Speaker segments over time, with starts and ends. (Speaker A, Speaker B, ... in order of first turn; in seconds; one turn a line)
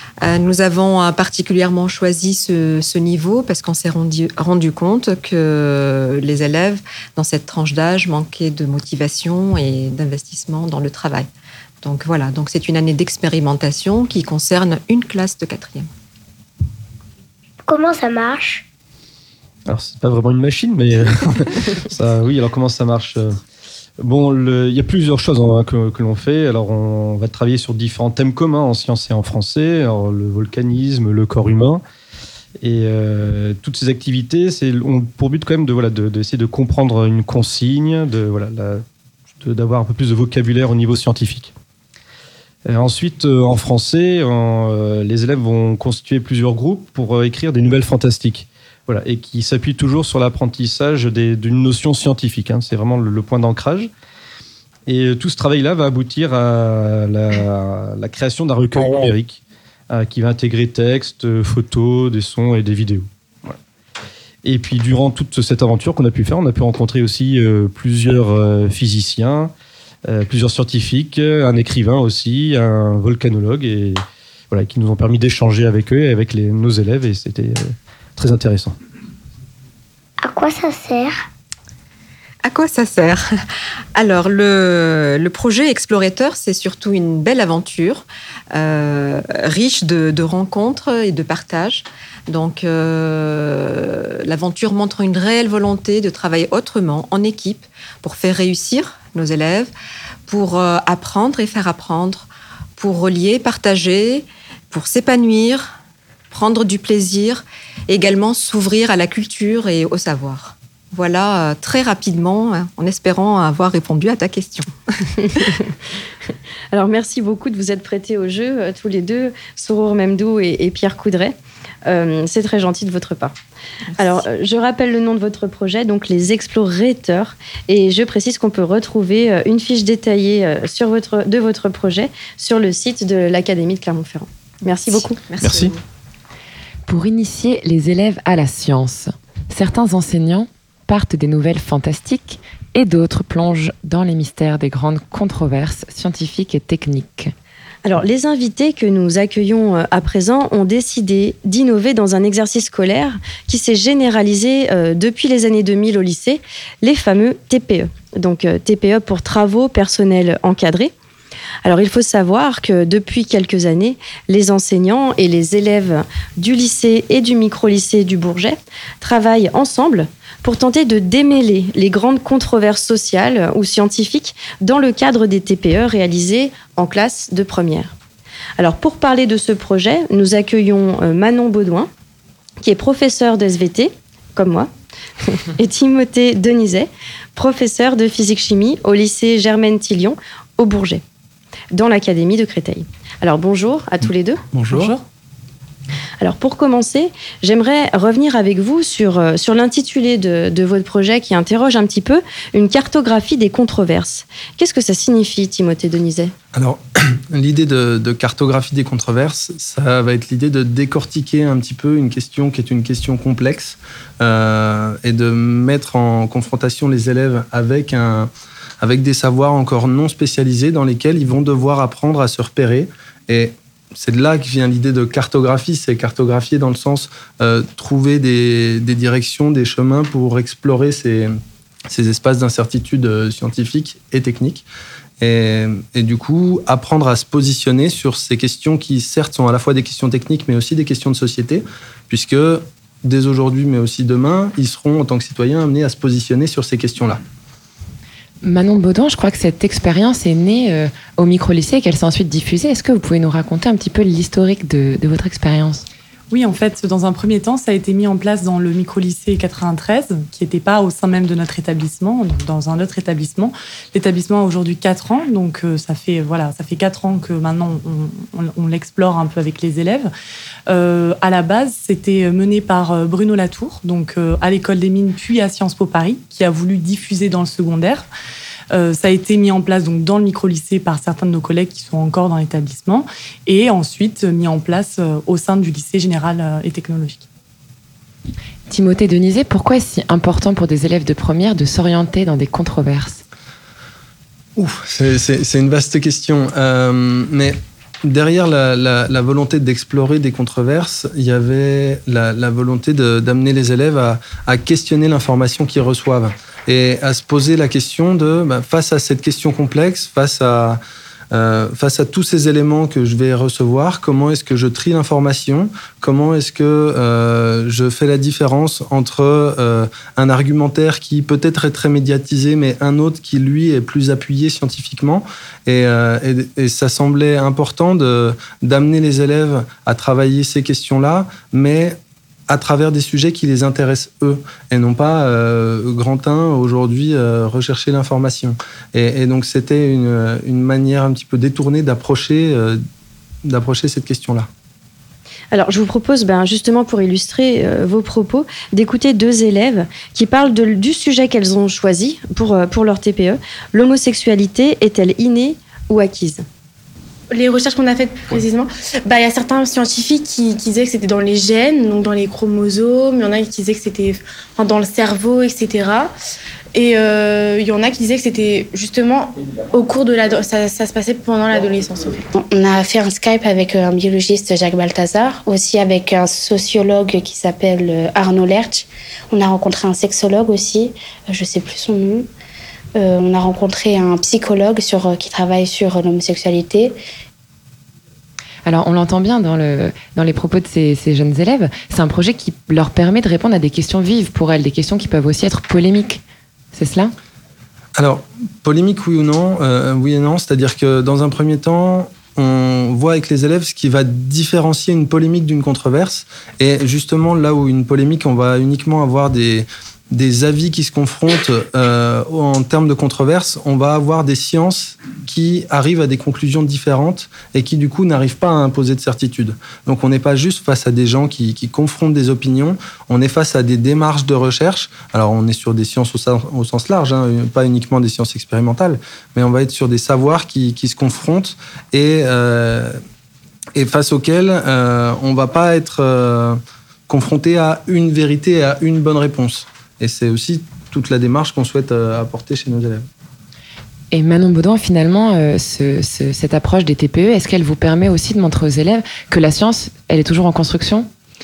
Speaker A: 0.2-11.3
Speaker A: 11.8-15.9
Speaker B: 17.7-18.6
Speaker C: 19.7-23.4
Speaker C: 24.0-31.8
Speaker C: 32.6-38.8
Speaker C: 39.4-41.5
Speaker C: 42.6-53.9
Speaker C: 54.9-63.5
Speaker C: 64.4-69.5
Speaker C: 70.0-74.0
Speaker C: 74.5-78.8
Speaker B: 80.2-81.2
Speaker A: 82.4-83.2
Speaker A: 83.9-99.7
Speaker A: 100.3-105.8
Speaker A: 106.3-114.7
Speaker D: 116.7-121.3
Speaker D: 121.8-123.3
Speaker A: 124.0-124.2
Speaker D: 124.0-135.2
Speaker A: 135.2-135.8
Speaker C: 135.4-135.7
Speaker E: 136.9-147.3
Speaker D: 147.8-160.9
Speaker D: 161.6-177.9
Speaker D: 178.6-181.9
Speaker D: 182.6-184.7
Speaker D: 185.2-191.0
Speaker D: 191.7-194.9
Speaker F: 194.5-194.9
Speaker D: 196.2-206.3
Speaker F: 206.5-218.3
Speaker F: 218.8-231.3
Speaker F: 231.9-234.7
Speaker F: 235.2-247.2
Speaker E: 248.4-255.8
Speaker G: 256.3-270.1
Speaker G: 270.7-278.1
Speaker G: 278.7-287.2
Speaker E: 288.7-293.2
Speaker F: 294.6-310.8
Speaker F: 311.3-332.0
Speaker F: 332.5-342.8
Speaker F: 343.4-344.5
Speaker D: 345.5-356.4
Speaker H: 357.3-366.1
Speaker H: 366.7-372.2
Speaker I: 372.3-382.3
Speaker I: 382.9-387.0
Speaker E: 388.6-396.2
Speaker E: 396.7-397.1
Speaker F: 397.9-433.0
Speaker F: 433.8-443.1
Speaker E: 444.1-451.1